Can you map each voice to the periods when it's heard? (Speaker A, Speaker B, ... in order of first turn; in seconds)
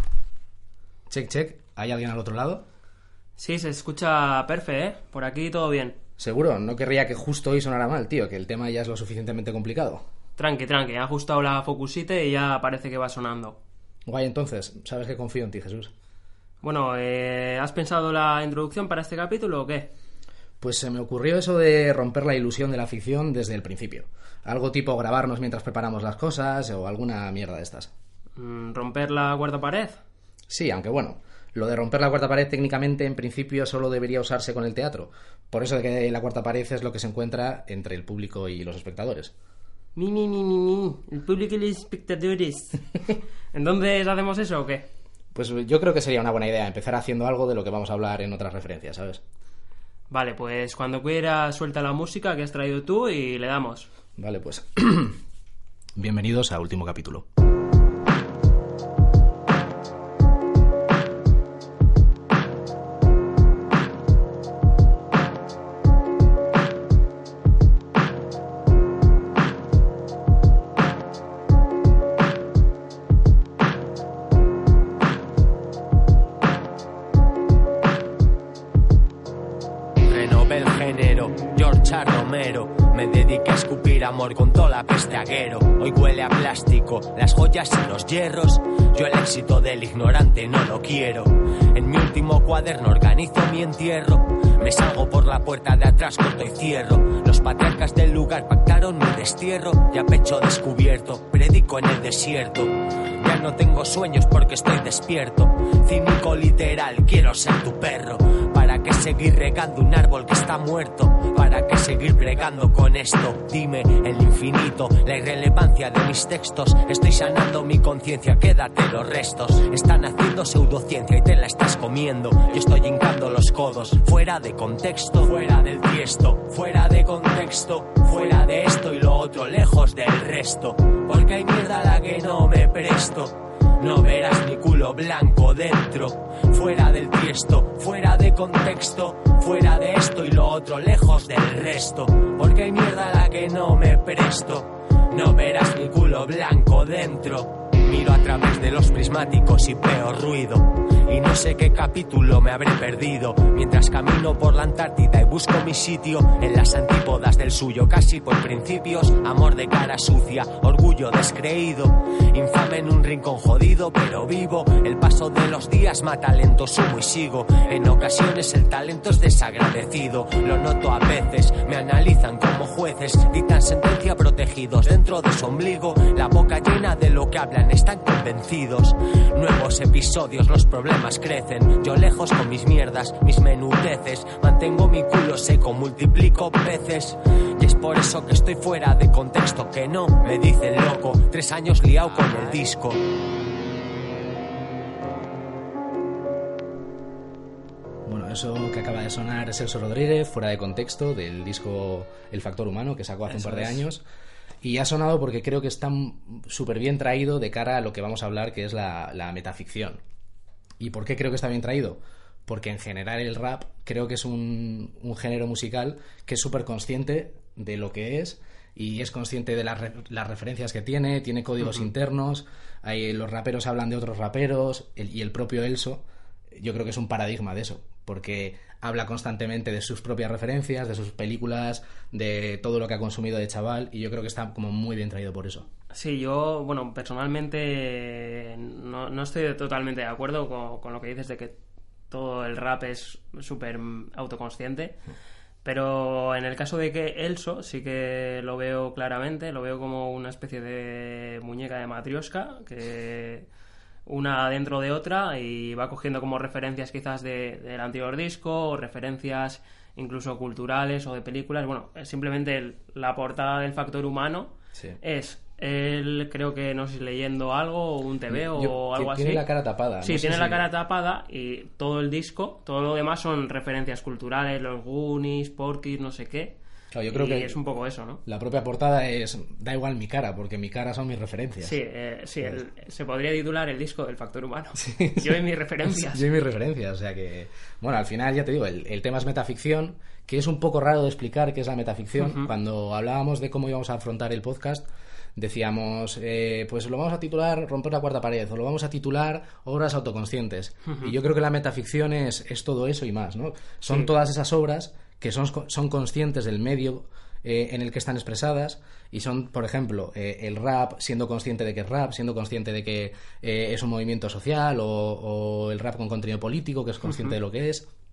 Speaker A: 1.1-2.6, 6.2-10.0, 14.1-15.9, 20.6-27.9, 30.5-39.3, 45.3-49.2, 54.2-55.2, 56.0-57.2, 198.0-204.0, 204.6-210.0, 210.8-235.7, 268.3-270.6, 276.9-277.6, 278.2-281.8, 284.8-317.9
Speaker B: 3.4-6.0, 10.4-13.6, 16.6-19.9, 28.4-30.0, 39.9-44.9, 50.1-53.9, 203.3-203.8, 235.9-241.6, 242.1-245.0, 245.6-253.5, 254.1-269.4, 270.0-276.6, 277.1-278.2, 281.6-286.2, 292.2-292.5, 300.9-301.1
Speaker C: 80.0-193.0